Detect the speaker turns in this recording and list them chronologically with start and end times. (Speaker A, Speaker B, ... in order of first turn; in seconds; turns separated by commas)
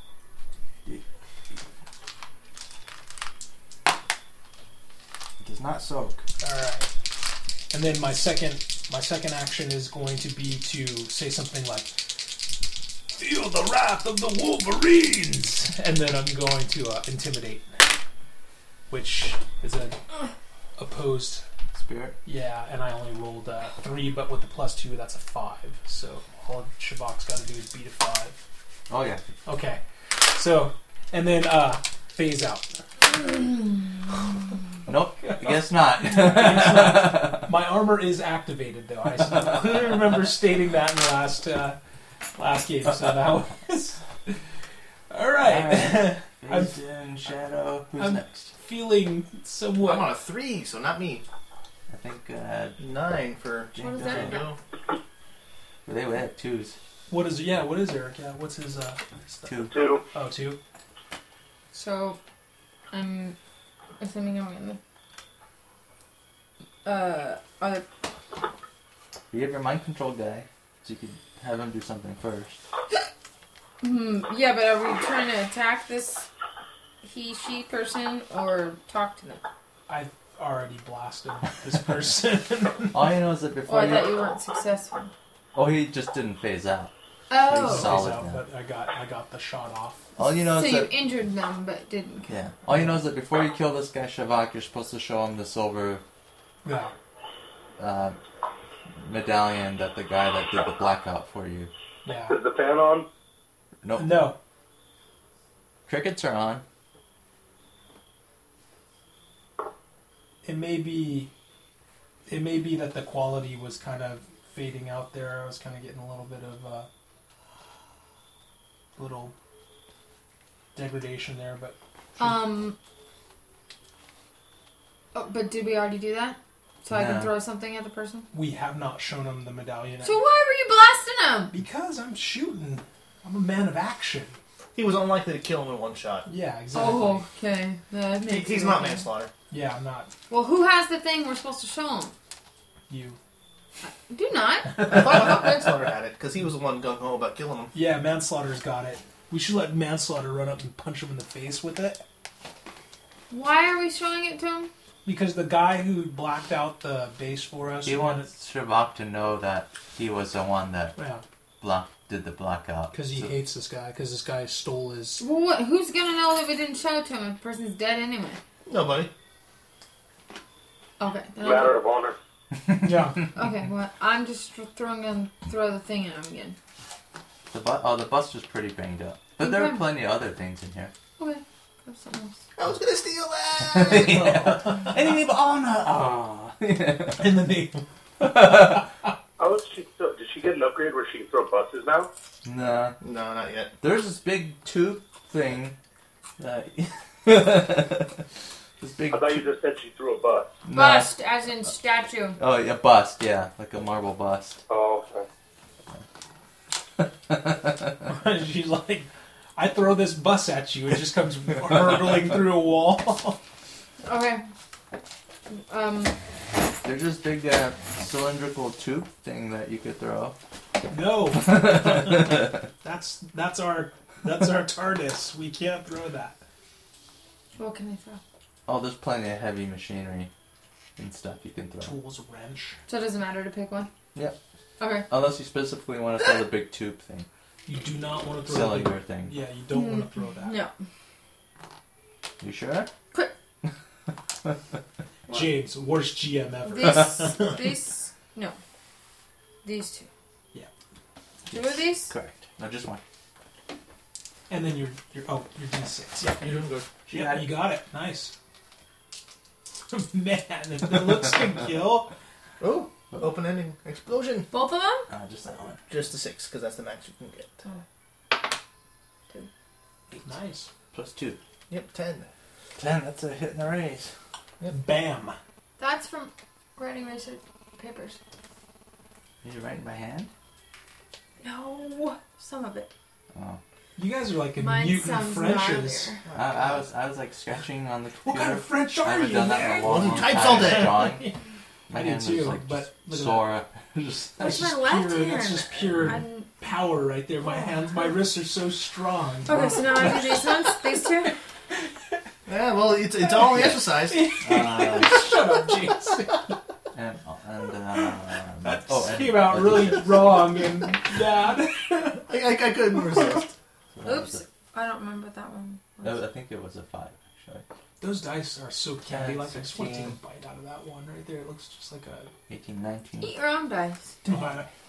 Speaker A: 5.4-6.2, Speaker B: 6.4-6.9, Speaker B: 7.7-12.0, Speaker B: 13.1-17.9, Speaker B: 18.9-20.0, Speaker B: 20.8-21.4, Speaker A: 21.7-22.2, Speaker B: 22.2-28.4, Speaker A: 28.9-29.2, Speaker B: 29.4-32.8, Speaker A: 34.9-37.5, Speaker B: 35.2-41.8, Speaker B: 42.3-44.4, Speaker B: 45.1-46.8, Speaker A: 45.4-48.5, Speaker B: 48.0-50.1, Speaker C: 49.8-51.2, Speaker A: 51.9-52.8, Speaker C: 52.8-54.6, Speaker A: 53.7-54.5, Speaker D: 53.8-54.5, Speaker A: 55.9-56.8, Speaker B: 57.1-60.6, Speaker A: 59.5-59.7, Speaker E: 59.7-60.0, Speaker D: 61.7-62.2, Speaker D: 62.9-63.4, Speaker D: 64.0-64.8, Speaker D: 66.8-67.8, Speaker A: 69.3-72.6, Speaker D: 73.8-76.3, Speaker D: 77.0-79.4, Speaker B: 79.9-83.0, Speaker A: 82.9-84.2, Speaker D: 83.7-85.1, Speaker A: 85.5-86.9, Speaker D: 87.3-88.0, Speaker A: 87.4-88.4, Speaker B: 87.5-90.2, Speaker A: 90.2-90.9, Speaker D: 90.5-92.3, Speaker A: 92.2-96.0, Speaker B: 96.6-96.9, Speaker A: 97.8-98.2, Speaker A: 99.0-101.7, Speaker B: 102.0-102.4, Speaker E: 102.3-103.0, Speaker A: 103.8-104.3, Speaker B: 104.0-104.3, Speaker A: 105.8-106.6, Speaker B: 110.4-111.3, Speaker B: 112.2-116.9, Speaker B: 119.0-119.3, Speaker B: 120.7-122.3, Speaker D: 122.2-122.8, Speaker D: 125.1-128.3, Speaker A: 126.9-127.3, Speaker B: 128.3-130.2, Speaker D: 130.0-131.5, Speaker B: 131.5-134.4, Speaker C: 134.7-136.3, Speaker B: 136.2-137.2, Speaker D: 136.7-139.1, Speaker C: 138.2-139.3, Speaker B: 139.5-140.1, Speaker D: 140.3-142.1, Speaker B: 142.9-143.2, Speaker D: 144.1-145.2, Speaker C: 144.8-147.7, Speaker B: 147.7-152.0, Speaker D: 153.3-154.7, Speaker B: 155.0-158.3, Speaker A: 157.8-160.9, Speaker B: 161.0-161.2, Speaker A: 161.6-163.3, Speaker B: 162.9-165.2, Speaker D: 165.2-168.4, Speaker C: 168.7-169.1, Speaker D: 171.0-171.8, Speaker E: 171.4-172.2, Speaker B: 172.8-173.3, Speaker D: 173.3-176.6, Speaker A: 177.5-180.9, Speaker D: 179.4-179.8, Speaker D: 181.2-182.4, Speaker C: 182.6-184.4, Speaker A: 183.6-187.4, Speaker B: 184.0-184.9, Speaker B: 187.2-187.8, Speaker A: 188.2-188.8, Speaker B: 188.4-188.8, Speaker E: 189.4-192.1, Speaker A: 192.4-193.0, Speaker C: 193.0-193.7, Speaker A: 193.8-195.8, Speaker A: 196.4-198.2, Speaker A: 198.8-199.4, Speaker E: 199.1-200.5, Speaker A: 200.6-201.1, Speaker D: 200.7-202.4, Speaker A: 202.4-204.6, Speaker E: 204.7-205.3, Speaker A: 207.3-207.9, Speaker B: 208.0-213.4, Speaker D: 214.0-214.4, Speaker D: 215.5-216.2, Speaker A: 216.8-220.3, Speaker B: 220.9-226.4, Speaker A: 221.4-222.5, Speaker D: 227.6-228.2, Speaker A: 228.7-230.3, Speaker A: 231.0-231.9, Speaker B: 231.8-232.8, Speaker D: 232.9-233.9, Speaker D: 234.8-235.1, Speaker A: 235.1-237.3, Speaker B: 237.7-240.6, Speaker A: 238.4-239.3, Speaker D: 239.7-240.7, Speaker A: 242.4-242.9, Speaker B: 245.3-247.7, Speaker D: 246.6-248.6, Speaker D: 249.6-250.1, Speaker D: 251.5-252.1, Speaker A: 251.5-253.0, Speaker B: 254.5-256.4, Speaker C: 256.3-257.0, Speaker A: 257.1-257.6, Speaker B: 257.1-258.3, Speaker B: 259.9-262.1, Speaker C: 262.6-264.5, Speaker D: 264.5-265.1, Speaker A: 265.1-265.8, Speaker C: 265.9-267.6, Speaker B: 270.2-270.7, Speaker A: 270.9-271.4, Speaker C: 271.7-272.3, Speaker A: 272.8-274.1, Speaker B: 274.7-275.4, Speaker D: 275.8-278.2, Speaker A: 279.4-280.3, Speaker D: 281.4-282.9, Speaker A: 283.3-283.6, Speaker B: 283.9-286.2, Speaker D: 284.6-286.2, Speaker C: 286.2-286.8, Speaker A: 286.3-291.3, Speaker B: 288.2-291.4, Speaker C: 289.8-291.1, Speaker A: 291.9-294.6, Speaker B: 291.9-293.5, Speaker B: 294.4-300.5, Speaker D: 294.4-296.5, Speaker D: 299.4-301.3, Speaker C: 302.5-304.3, Speaker B: 303.5-306.6, Speaker A: 303.5-303.8, Speaker A: 304.4-305.3, Speaker A: 306.9-310.4, Speaker B: 307.9-312.3, Speaker C: 312.2-313.5, Speaker A: 313.9-314.4, Speaker D: 314.0-316.2, Speaker A: 316.0-317.6, Speaker B: 318.0-322.3, Speaker A: 319.1-320.2, Speaker A: 322.5-323.3, Speaker D: 323.2-324.1, Speaker B: 324.2-324.7